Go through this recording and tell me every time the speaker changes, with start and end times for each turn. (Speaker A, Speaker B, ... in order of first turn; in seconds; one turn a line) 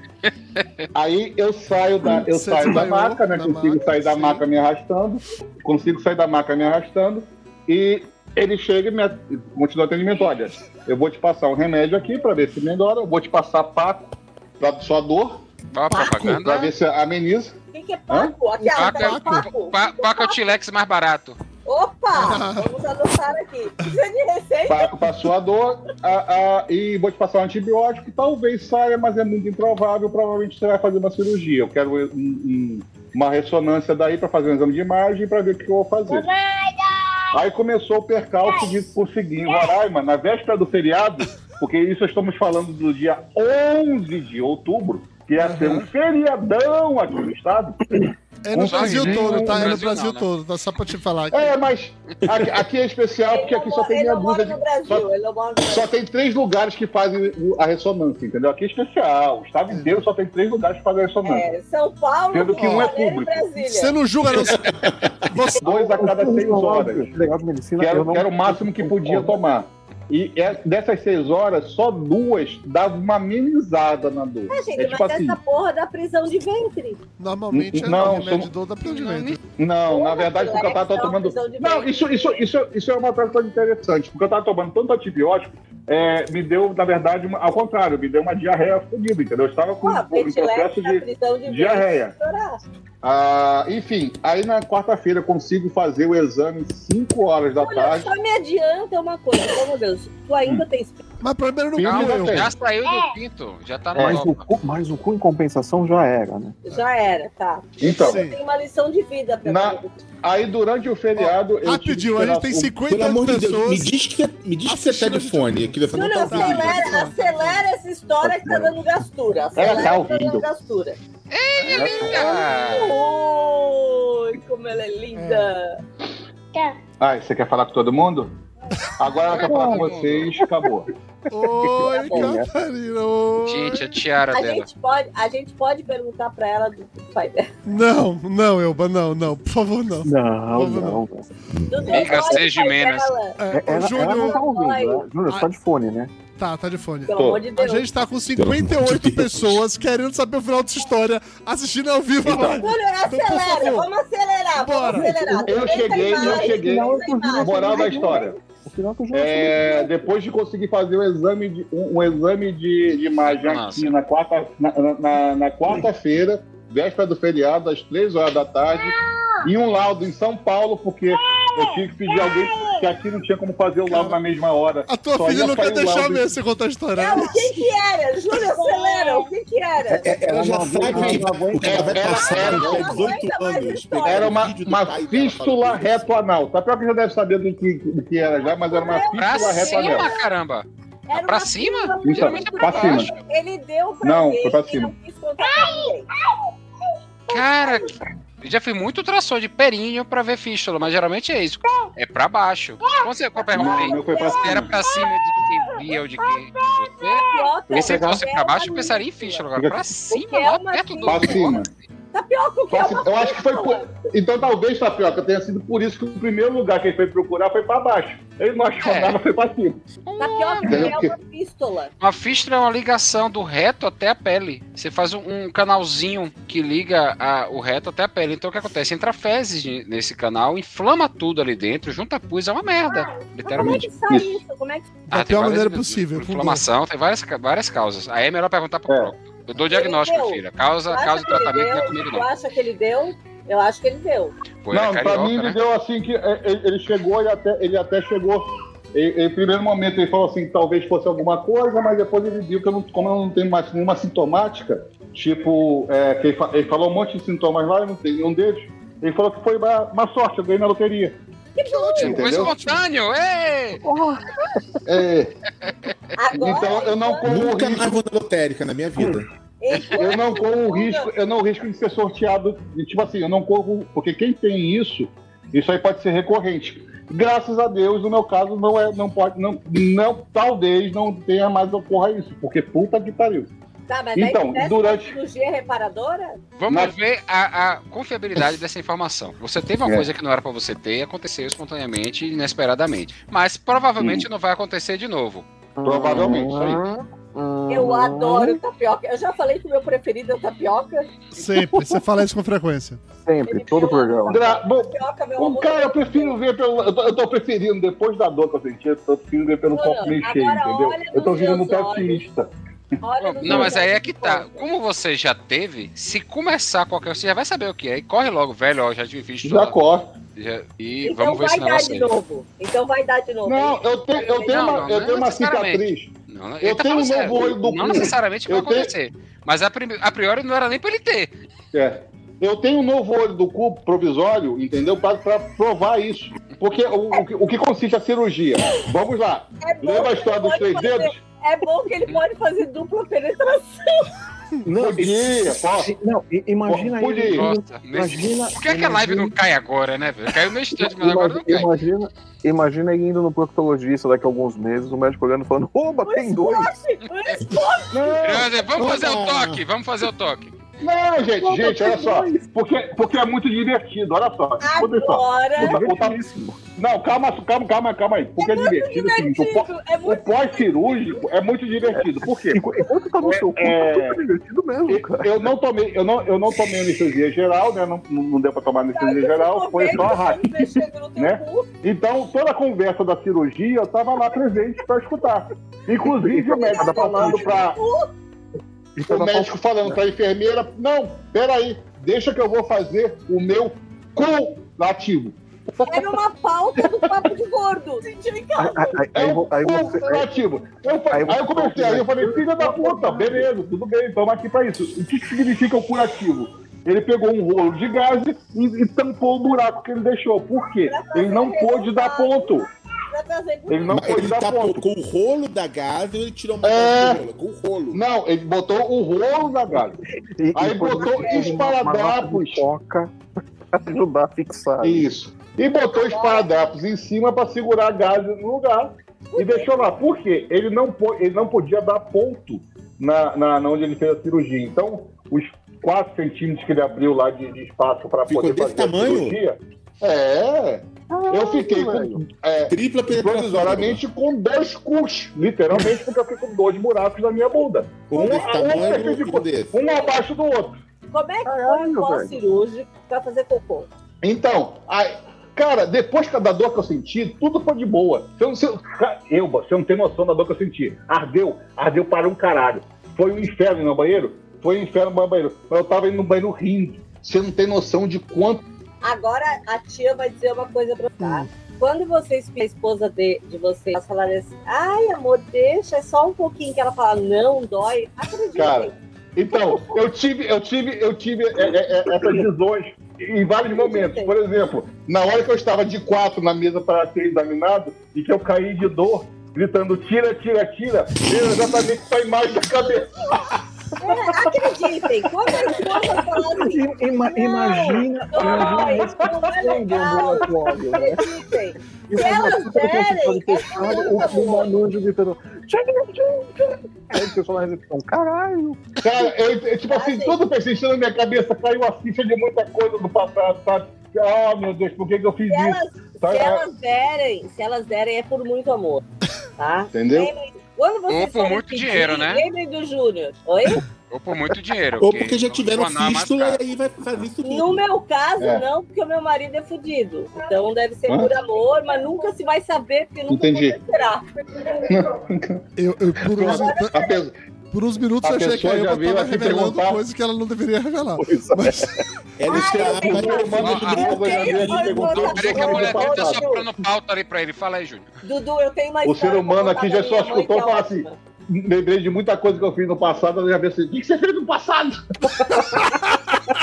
Speaker A: 0.2-0.8
Speaker B: 0.9-15.4
Speaker C: 2.2-4.4
Speaker A: 15.7-16.7
Speaker D: 15.9-16.4
Speaker B: 16.2-17.6
Speaker D: 17.7-20.6
Speaker A: 18.7-21.4
Speaker C: 18.8-19.5
Speaker D: 21.6-24.9
Speaker C: 22.1-22.7
Speaker B: 24.7-36.3
Speaker D: 36.1-36.9
Speaker B: 37.3-49.8
Speaker C: 45.4-45.9
Speaker C: 48.4-51.6
Speaker A: 48.6-50.2
Speaker B: 51.3-55.0
Speaker D: 53.2-55.9
Speaker B: 55.6-61.5
Speaker C: 59.7-60.0
Speaker D: 61.2-64.0
Speaker B: 62.3-63.4
Speaker C: 62.5-62.9
Speaker C: 63.6-64.7
Speaker E: 64.4-65.2
Speaker C: 65.2-65.6
Speaker B: 65.6-67.1
Speaker F: 65.7-69.4
Speaker B: 67.8-75.4
Speaker D: 74.5-77.0
Speaker C: 77.2-79.4
Speaker B: 77.5-78.5
Speaker A: 78.8-79.4
Speaker B: 79.6-92.1
Speaker D: 79.9-82.0
Speaker D: 89.8-92.6
Speaker B: 93.0-98.1
Speaker D: 97.6-101.0
Speaker C: 101.2-102.5
Speaker B: 101.8-102.5
Speaker A: 101.8-104.5
Speaker B: 104.0-104.2
Speaker F: 104.0-106.5
Speaker D: 106.6-110.0
Speaker B: 107.8-108.2
Speaker C: 108.0-108.4
Speaker B: 109.4-112.8
Speaker C: 111.2-113.9
Speaker E: 112.9-117.1
Speaker C: 114.7-117.7
Speaker D: 115.9-121.0
Speaker F: 118.2-118.8
Speaker B: 119.5-120.5
Speaker A: 121.3-123.0
Speaker F: 121.7-122.1
Speaker D: 121.8-125.8
Speaker C: 125.1-125.5
Speaker B: 127.0-128.3
Speaker B: 129.0-130.9
Speaker A: 129.3-130.4
Speaker C: 131.3-133.8
Speaker F: 131.6-132.5
Speaker D: 131.9-132.3
Speaker A: 133.4-134.7
Speaker D: 134.3-137.5
Speaker C: 137.6-141.0
Speaker F: 140.1-141.3
Speaker E: 141.6-141.9
Speaker D: 141.7-143.4
Speaker A: 141.9-143.1
Speaker C: 143.4-144.4
Speaker F: 143.5-146.1
Speaker D: 144.0-145.1
Speaker C: 146.4-153.9
Speaker D: 147.1-147.9
Speaker B: 147.1-147.4
Speaker E: 148.4-149.6
Speaker B: 152.2-152.6
Speaker D: 152.4-158.4
Speaker C: 154.6-155.2
Speaker F: 155.2-160.1
Speaker B: 155.4-158.3
Speaker B: 159.1-176.3
Speaker A: 163.2-163.9
Speaker D: 172.1-172.8
Speaker C: 173.9-174.2
Speaker C: 174.9-177.6
Speaker D: 176.9-180.1
Speaker F: 180.0-182.8
Speaker E: 180.0-186.1
Speaker B: 180.9-183.1
Speaker D: 182.1-184.4
Speaker B: 184.1-190.1
Speaker D: 188.2-190.2
Speaker A: 189.1-193.2
Speaker D: 191.1-196.1
Speaker B: 192.1-193.1
Speaker B: 194.0-194.9
Speaker D: 197.3-197.9
Speaker A: 197.3-211.7
Speaker D: 202.9-205.1
Speaker B: 203.5-204.8
Speaker D: 207.0-209.5
Speaker B: 207.7-208.2
Speaker B: 209.6-209.8
Speaker D: 210.1-211.6
Speaker B: 211.1-211.7
Speaker D: 212.1-213.9
Speaker B: 212.7-219.8
Speaker A: 218.8-219.2
Speaker A: 220.1-220.9
Speaker D: 220.2-221.9
Speaker B: 220.6-221.2
Speaker A: 222.0-233.9
Speaker D: 232.9-234.9
Speaker B: 233.6-234.4
Speaker C: 235.1-236.6
Speaker A: 235.1-242.2
Speaker D: 239.6-244.3
Speaker A: 244.6-245.6
Speaker B: 244.7-261.2
Speaker D: 261.6-262.2
Speaker C: 261.6-262.8
Speaker A: 262.0-263.8
Speaker B: 262.0-262.5
Speaker F: 263.8-265.0
Speaker B: 264.9-265.4
Speaker A: 265.6-265.9
Speaker D: 266.2-267.5
Speaker B: 266.3-268.0
Speaker E: 267.2-269.3
Speaker D: 269.6-271.1
Speaker B: 269.9-283.5
Speaker D: 283.9-286.4
Speaker B: 284.1-285.2
Speaker A: 286.6-295.4
Speaker B: 286.7-286.9
Speaker B: 294.0-294.2
Speaker F: 295.8-298.6
Speaker B: 295.8-296.8
Speaker D: 297.7-301.1
Speaker C: 301.4-303.0
Speaker F: 301.5-302.0
Speaker F: 303.2-304.4
Speaker D: 303.4-306.4
Speaker B: 304.3-312.5
Speaker D: 309.7-312.2
Speaker D: 313.0-314.7
Speaker A: 313.2-319.8
Speaker B: 313.4-313.7
Speaker B: 319.4-320.1
Speaker A: 320.4-322.1
Speaker D: 321.0-324.9
Speaker B: 323.4-326.1
Speaker A: 324.5-331.3
Speaker B: 326.6-328.9
Speaker B: 331.7-341.1
Speaker D: 339.6-344.1
Speaker F: 344.6-349.4
Speaker B: 344.7-345.9
Speaker B: 346.6-347.5
Speaker A: 347.3-351.7
Speaker F: 350.8-356.7
Speaker D: 356.1-358.2
Speaker B: 357.9-358.6
Speaker A: 358.2-360.5
Speaker E: 358.7-359.6
Speaker B: 360.8-366.2
Speaker F: 361.3-362.4
Speaker D: 364.6-365.8
Speaker F: 365.6-366.6
Speaker B: 366.8-372.6
Speaker D: 368.4-371.1
Speaker F: 371.9-375.5
Speaker B: 373.2-374.2
Speaker B: 374.9-387.8
Speaker D: 378.9-381.7
Speaker F: 386.0-387.6
Speaker D: 386.5-388.1
Speaker F: 388.9-390.0
Speaker B: 389.1-395.4
Speaker D: 395.8-398.9
Speaker F: 398.6-400.3
Speaker B: 399.1-412.6
Speaker F: 401.1-403.5
Speaker D: 410.8-412.6
Speaker D: 413.1-414.0
Speaker B: 413.7-414.9
Speaker E: 413.9-418.0
Speaker B: 416.6-417.2
Speaker B: 417.9-420.0
Speaker F: 420.3-423.1
Speaker B: 420.6-422.6
Speaker D: 420.9-421.7
Speaker F: 423.7-425.1
Speaker B: 424.8-450.8
Speaker D: 425.9-426.5
Speaker D: 429.3-429.7
Speaker E: 438.3-439.4
Speaker F: 441.1-442.2
Speaker E: 442.7-444.0
Speaker E: 448.1-449.7
Speaker D: 449.8-450.1
Speaker D: 451.1-453.9
Speaker F: 451.4-452.4
Speaker B: 454.2-468.6
Speaker D: 469.0-478.9
Speaker C: 471.2-471.5
Speaker B: 478.6-493.2
Speaker D: 483.7-484.3
Speaker D: 494.0-504.7
Speaker F: 496.4-501.4
Speaker B: 498.4-498.9
Speaker F: 502.1-508.9
Speaker B: 509.0-516.6
Speaker D: 509.9-510.4
Speaker D: 515.5-519.0
Speaker D: 519.6-523.9
Speaker B: 519.9-520.3
Speaker A: 521.1-522.4
Speaker A: 524.1-526.6
Speaker E: 525.0-527.8
Speaker D: 527.4-534.3
Speaker B: 528.4-528.6
Speaker B: 531.1-531.3
Speaker B: 533.3-533.8
Speaker B: 534.8-535.6
Speaker C: 535.8-536.9
Speaker B: 536.3-537.3
Speaker D: 536.4-537.2
Speaker C: 537.7-542.0
Speaker B: 538.2-540.0
Speaker F: 541.2-542.0
Speaker E: 542.4-545.3
Speaker D: 542.5-546.7
Speaker B: 542.5-546.4
Speaker A: 543.6-544.1
Speaker A: 545.1-548.1
Speaker D: 548.2-551.2
Speaker B: 549.0-555.9